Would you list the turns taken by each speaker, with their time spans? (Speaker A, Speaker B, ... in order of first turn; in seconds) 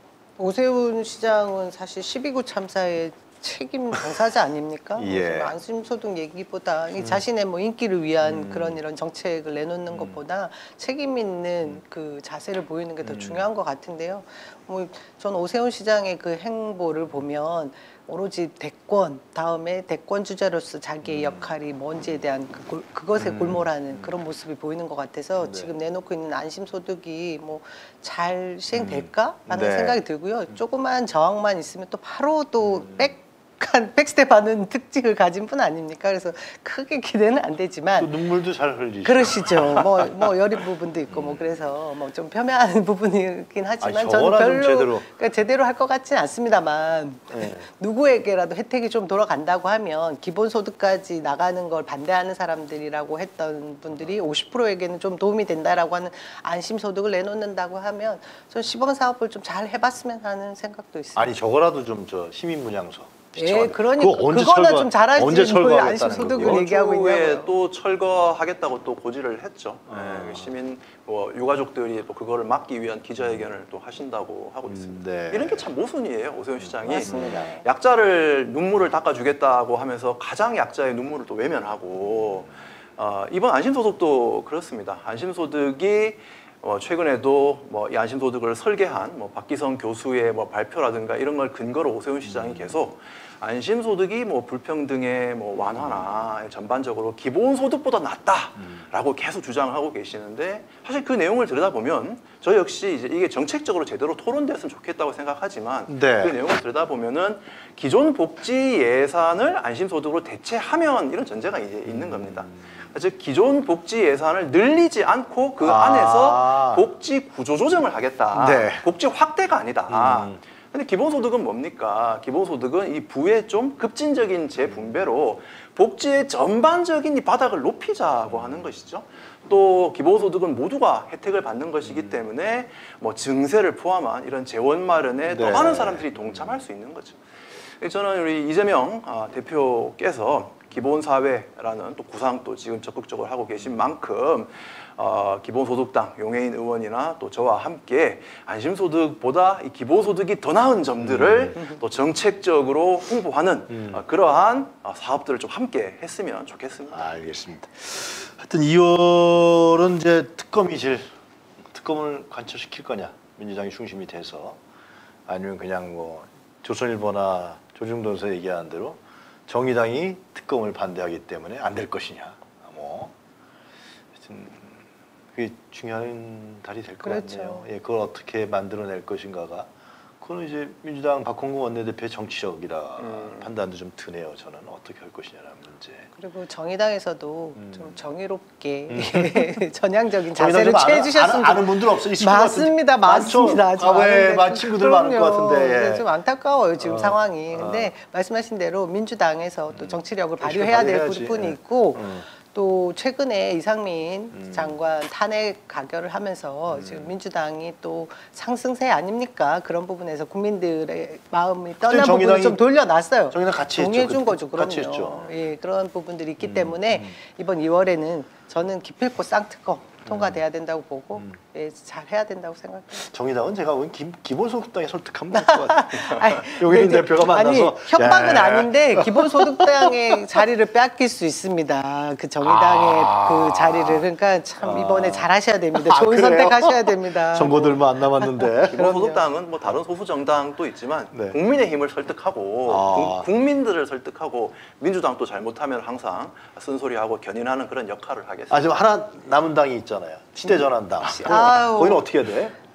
Speaker A: 0.4-38.2, 39.0-61.3, 63.4-67.5, 76.9-77.6, 177.0-177.7, 186.2-223.1, 225.3-238.3, 250.4-252.1
Speaker B: 5.0-5.5, 7.0-7.2, 8.2-8.8, 9.9-10.2, 13.0-13.5, 21.1-21.5, 23.2-24.1, 25.4-25.7, 28.7-30.0, 32.6-33.1, 38.0-39.9, 41.1-41.5, 43.8-45.1, 47.3-47.7, 61.1-66.8, 69.9-70.5, 74.7-75.7, 76.6-77.4, 82.1-82.5, 92.2-92.8, 95.8-96.2, 105.9-106.4, 111.8-112.7, 115.6-116.8, 118.3-118.8, 119.9-120.4, 128.3-128.7, 131.8-132.2, 135.3-136.6, 151.0-151.6, 153.7-154.0, 156.9-161.1, 161.7-164.6, 165.3-173.1, 174.2-174.8, 175.3-186.1, 187.6-187.8, 188.9-189.6, 190.3-196.1, 196.8-197.9, 199.7-202.2, 204.3-204.8, 206.7-207.2, 211.8-212.6, 213.3-215.3, 216.4-217.2, 220.1-220.4, 223.0-230.4, 232.4-234.0, 234.6-239.2, 241.1-241.4, 242.7-243.3, 248.5-252.6
Speaker C: 66.2-137.2, 137.8-157.1, 183.0-183.5, 238.7-248.8